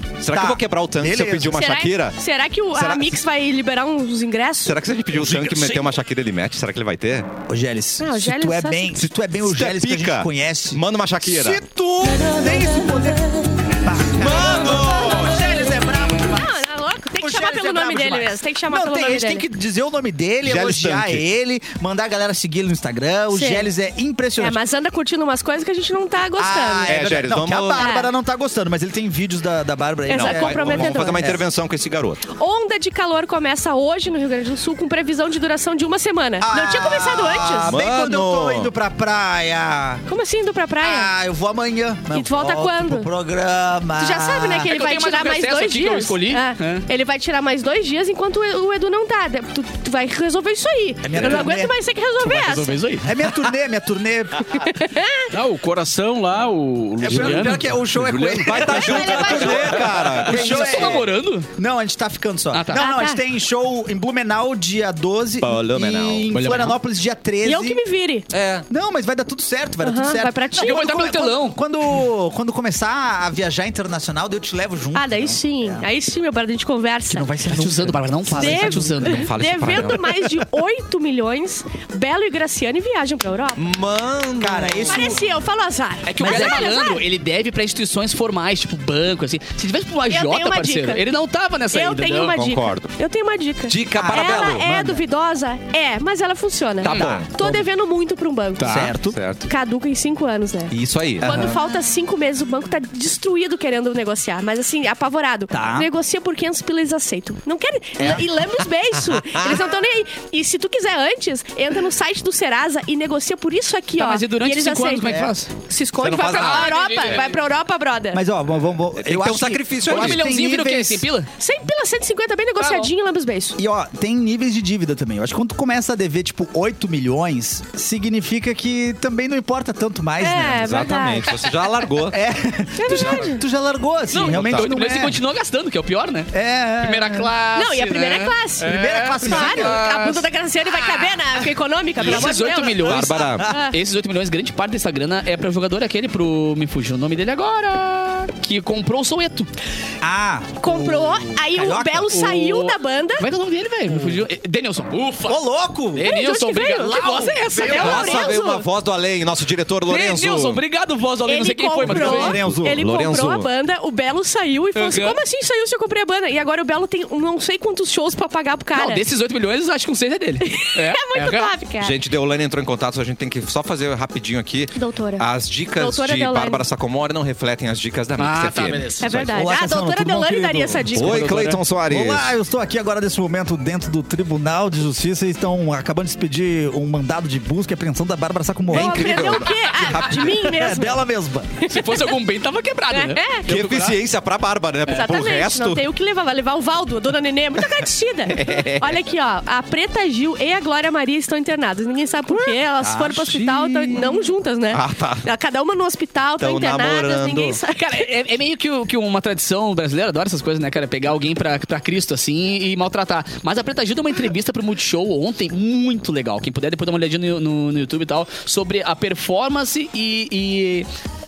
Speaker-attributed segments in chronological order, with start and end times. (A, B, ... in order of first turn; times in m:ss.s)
0:00.2-0:02.2 A
0:00.3-0:01.6 B
0:01.5-0:04.8 C
0:02.7-0:03.2 A
0:04.6-0:07.3 A
0:05.1-0:05.9 B
0:07.5-0:16.6 B
0:08.0-0:09.0 C
0:09.4-0:11.6 A
0:12.3-0:13.1 C
0:14.2-0:15.4 A
0:14.6-0:19.5 C
0:17.2-0:24.6 B
0:20.4-0:21.2 A
0:23.3-0:23.7 C
0:24.4-0:27.0 C
0:26.4-0:31.4 B
0:26.9-0:27.9 A
0:27.7-0:28.1 C
0:30.1-0:31.4 C
0:30.1-0:32.2 A
0:32.3-0:37.8 C
0:36.4-0:40.0 B
0:37.7-0:38.7 A
0:40.1-0:41.1 C
0:40.8-0:44.7 B
0:42.1-0:43.1 C
0:44.0-0:52.8 C
0:44.6-0:46.9 D
0:51.0-0:51.7 B
0:52.2-0:53.1 D
0:53.0-0:54.6 B
0:54.5-0:55.3 C
0:55.3-0:59.3 E
0:57.0-1:07.8 B
0:57.1-0:57.7 D
0:58.4-1:01.0 A
0:58.7-0:59.9 C
1:00.2-1:01.5 D
1:02.5-1:02.8 D
1:02.8-1:03.2 C
1:05.4-1:06.3 A
1:06.3-1:06.8 D
1:07.4-1:08.3 C
1:08.3-1:08.7 A
1:08.7-1:15.9 B
1:09.8-1:11.2 C
1:10.6-1:11.6 D
1:14.9-1:17.3 C
1:17.1-1:19.2 B
1:17.5-1:19.3 D
1:18.4-1:23.6 C
1:19.0-1:20.1 A
1:23.6-1:25.1 A
1:24.4-1:25.2 B
1:24.9-1:27.0 C
1:26.1-1:32.4 D
1:26.2-1:26.7 B
1:30.1-1:31.0 C
1:31.7-1:38.8 C
1:32.3-1:32.9 A
1:33.7-1:34.7 A
1:33.9-1:35.0 B
1:36.8-1:37.3 A
1:36.8-1:37.2 D
1:36.9-1:37.7 B
1:38.6-1:38.9 D
1:38.6-1:39.2 B
1:39.1-1:39.5 A
1:39.5-1:58.2 C
1:40.7-1:41.3 A
1:41.2-1:41.5 B
1:45.5-1:45.9 B
1:49.1-1:49.6 A
1:54.0-1:55.5 D
1:55.0-1:55.3 B
1:56.0-1:57.1 A
1:56.2-1:57.4 D
1:58.1-2:01.0 B
1:59.0-2:00.2 A
1:59.9-2:01.3 D
2:01.4-2:03.6 C
2:02.6-2:02.9 D
2:03.6-2:10.8 B
2:10.2-2:11.4 C
2:10.6-2:12.2 A
2:12.1-2:15.2 B
2:12.8-2:13.4 C
2:14.1-2:20.2 D
2:14.2-2:14.7 A
2:16.3-2:17.3 B
2:17.6-2:23.8 C
2:18.6-2:19.8 B
2:22.0-2:29.5 D
2:22.8-2:23.5 A
2:30.0-2:32.2 B
2:30.6-2:33.3 C
2:32.1-2:35.4 D
2:33.9-2:34.3 B
2:35.3-2:36.1 B
2:36.0-2:38.2 D
2:36.0-2:38.7 C
2:36.8-2:38.4 B
2:37.7-2:40.6 A
2:39.9-2:42.4 D
2:41.2-2:49.0 C
2:41.8-2:42.8 B
2:41.9-2:43.5 A
2:44.8-2:45.2 D
2:48.8-2:51.5 D
2:50.4-2:52.0 C
2:51.8-2:59.3 A
2:54.8-2:56.6 C
2:58.2-2:59.1 D
2:59.0-3:01.4 C
2:59.3-3:11.6 B
3:00.9-3:02.3 A
3:01.0-3:01.6 D
3:08.7-3:11.0 C
3:08.7-3:10.5 A
3:11.6-3:12.2 C
3:11.6-3:14.0 D
3:12.9-3:13.5 C
3:13.5-3:15.8 A
3:14.9-3:28.1 C
3:18.3-3:19.0 A
3:22.3-3:25.2 A
3:26.4-3:27.6 A
3:27.7-3:40.9 D